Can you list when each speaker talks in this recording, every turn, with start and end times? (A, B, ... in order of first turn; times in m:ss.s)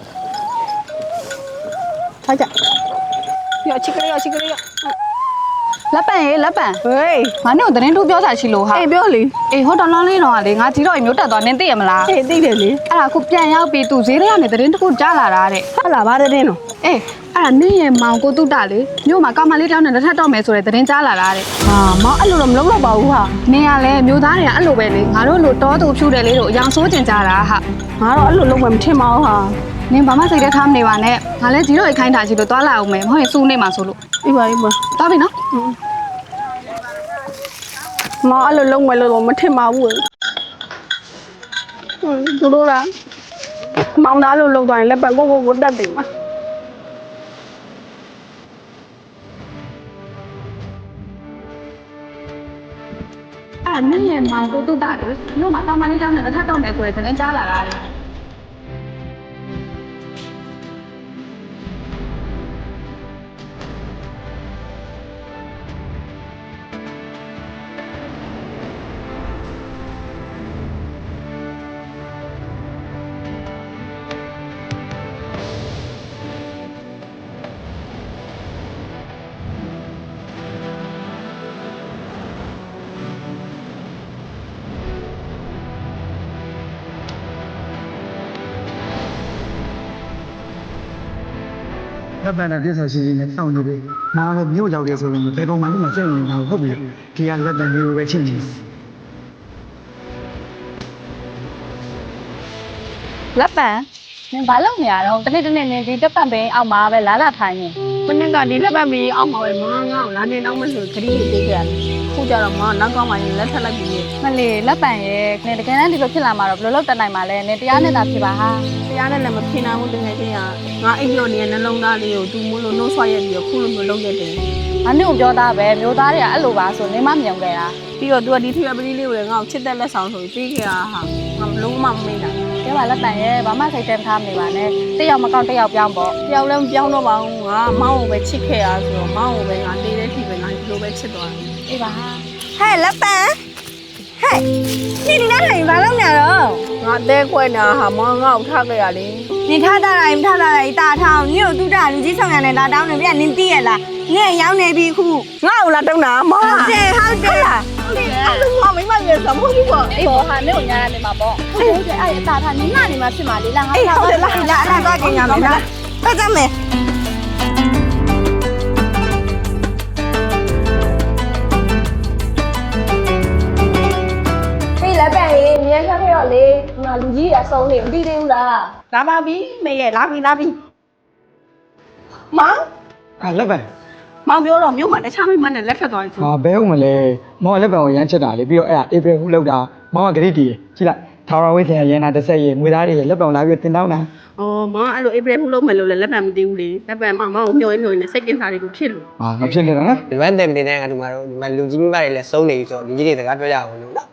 0:03.6-0:04.6 A
0:05.9-0:06.8 B
0:06.8-0:07.3 A
0:07.4-0:08.8 B
0:08.7-0:09.3 A
0:09.5-0:12.1 B
0:12.1-0:12.8 A
0:12.9-0:15.6 B
0:15.8-0:16.6 A
0:16.8-0:21.5 B
0:21.6-0:23.3 A
0:23.5-0:27.6 B
0:28.0-0:29.6 A
0:29.9-0:34.0 B
0:34.2-0:34.8 A
0:35.0-0:35.3 B
0:38.2-0:40.0 A
0:42.0-0:42.9 A
0:44.0-0:46.0 A
0:53.7-0:57.8 B
1:32.2-1:38.5 C
1:43.4-1:47.8 B
1:48.1-1:54.1 A
1:54.2-1:58.6 B
1:58.9-2:04.4 A
2:04.8-2:07.8 B
2:08.0-2:12.4 A
2:12.6-2:16.2 B
2:16.2-2:21.5 A
2:22.6-2:23.4 D
2:24.2-2:24.4 D
2:25.0-2:26.6 D
2:26.8-2:29.3 A
2:29.5-2:35.3 D
2:35.4-2:40.2 A
2:36.4-2:37.7 D
2:39.9-2:44.9 B
2:43.7-2:45.6 A
2:44.5-2:46.5 D
2:54.9-2:58.7 E
2:58.9-3:00.6 A
3:02.3-3:02.6 A
3:03.2-3:03.7 C
3:04.3-3:06.3 A
3:06.2-3:14.1 C
3:14.4-3:19.0 A
3:19.2-3:20.0 C
3:20.1-3:24.0 F